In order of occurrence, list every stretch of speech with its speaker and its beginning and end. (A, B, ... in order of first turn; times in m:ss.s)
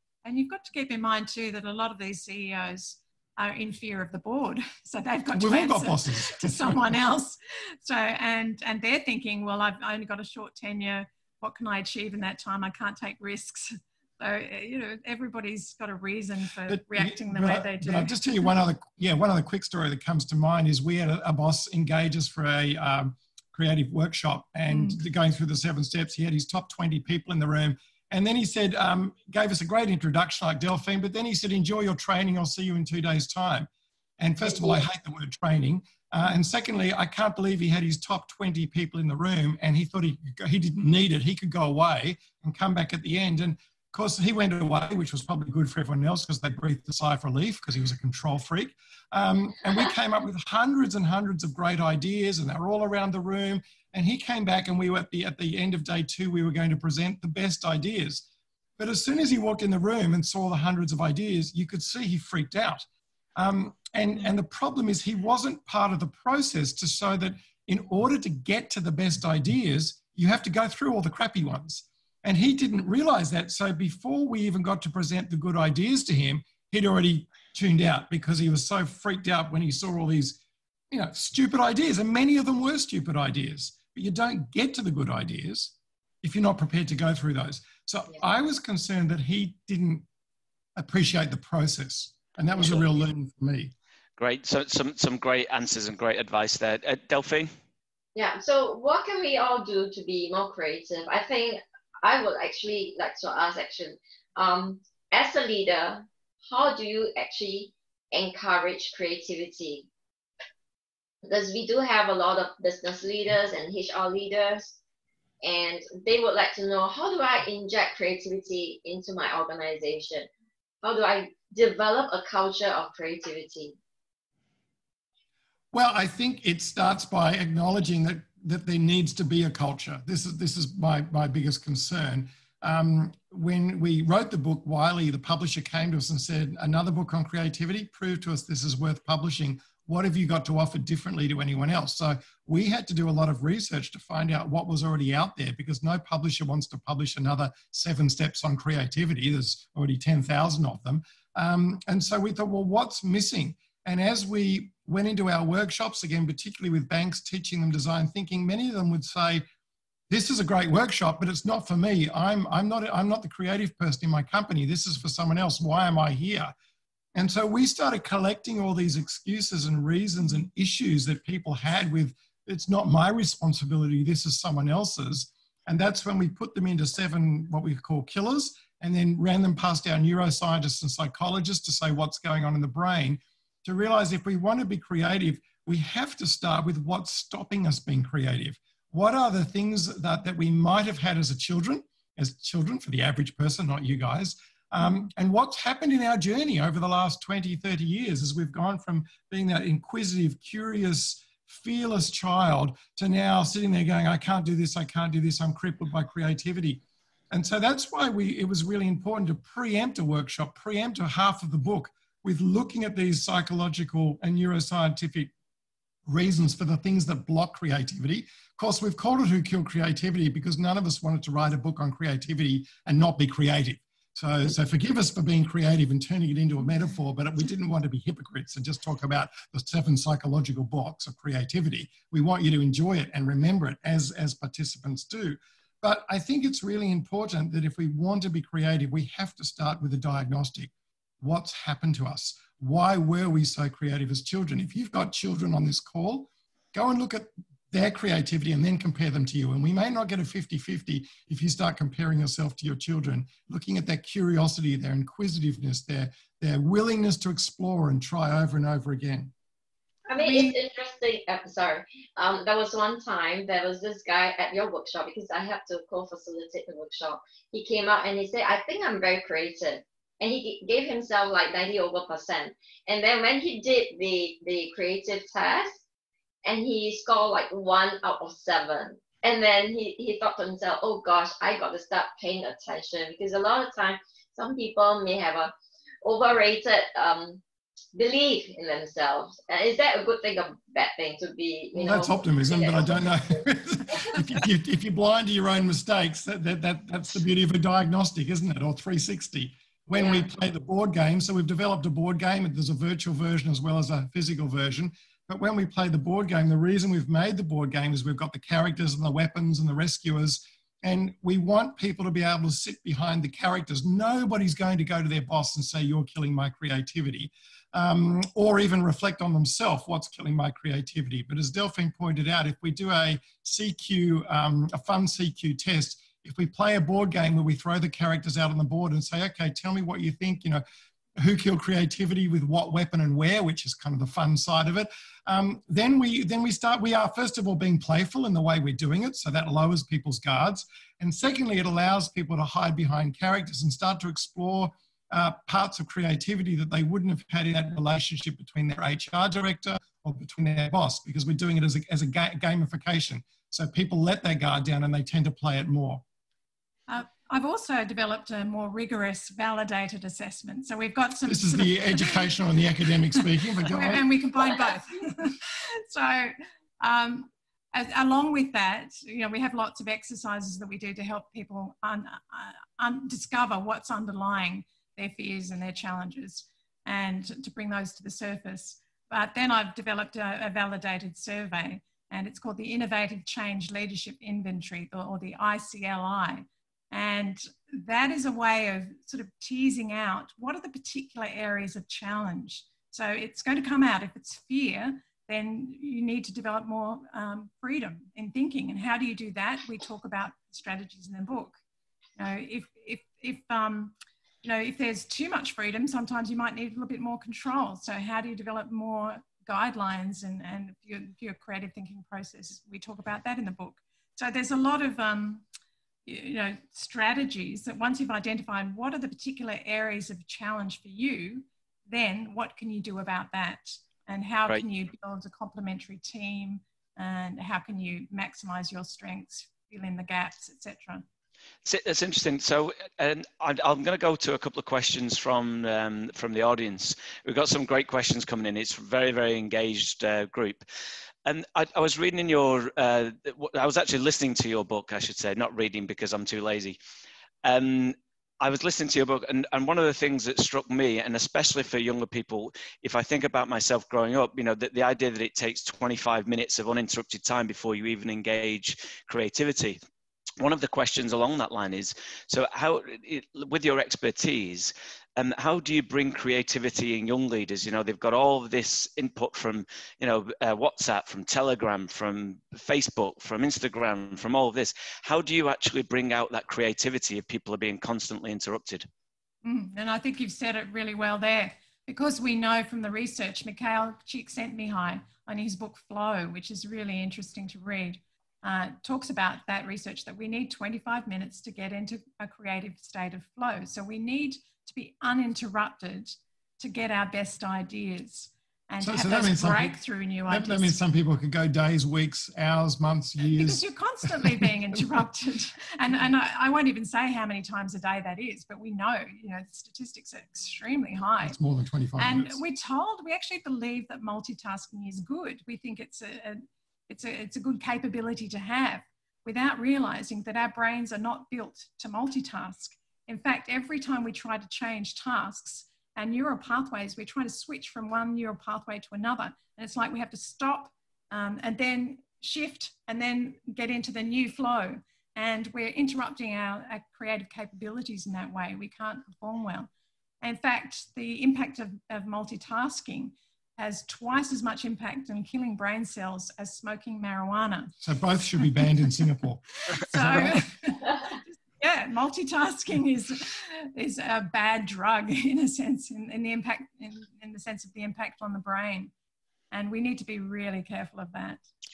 0:00.2-0:18.5 A
0:05.3-0:06.9 B
0:16.7-0:58.2 B
0:24.7-0:25.0 A
0:58.8-1:20.4 B
1:20.9-1:30.0 B
1:30.8-1:33.7 B
1:34.2-1:37.5 C
1:38.1-1:49.9 D
1:51.2-1:54.8 D
1:55.4-2:00.3 D
2:00.8-2:03.7 D
2:05.7-2:39.4 B
2:40.1-2:46.5 B
2:47.1-3:35.3 B
3:36.1-4:19.3 B
4:20.1-4:35.8 D
4:20.2-4:20.6 A
4:36.4-4:47.4 D
4:47.9-4:53.4 D
4:51.7-5:30.6 B
4:59.9-5:00.3 D
5:31.2-5:56.0 B
5:56.9-6:02.3 A
6:01.3-6:04.0 B
6:03.6-6:41.6 A
6:42.2-6:55.4 A
6:56.0-7:11.0 A
7:11.6-7:20.6 C
7:21.2-7:26.8 C
7:27.4-7:39.8 C
7:40.4-7:58.9 C
7:59.4-8:20.8 A
8:18.8-8:19.8 B
8:20.3-8:23.6 B
8:23.3-8:31.4 A
8:24.2-8:24.8 B
8:31.2-8:32.4 B
8:32.0-8:59.7 A
9:00.2-9:07.7 A
9:07.8-9:10.4 B
9:09.6-9:18.9 A
9:19.5-9:21.4 A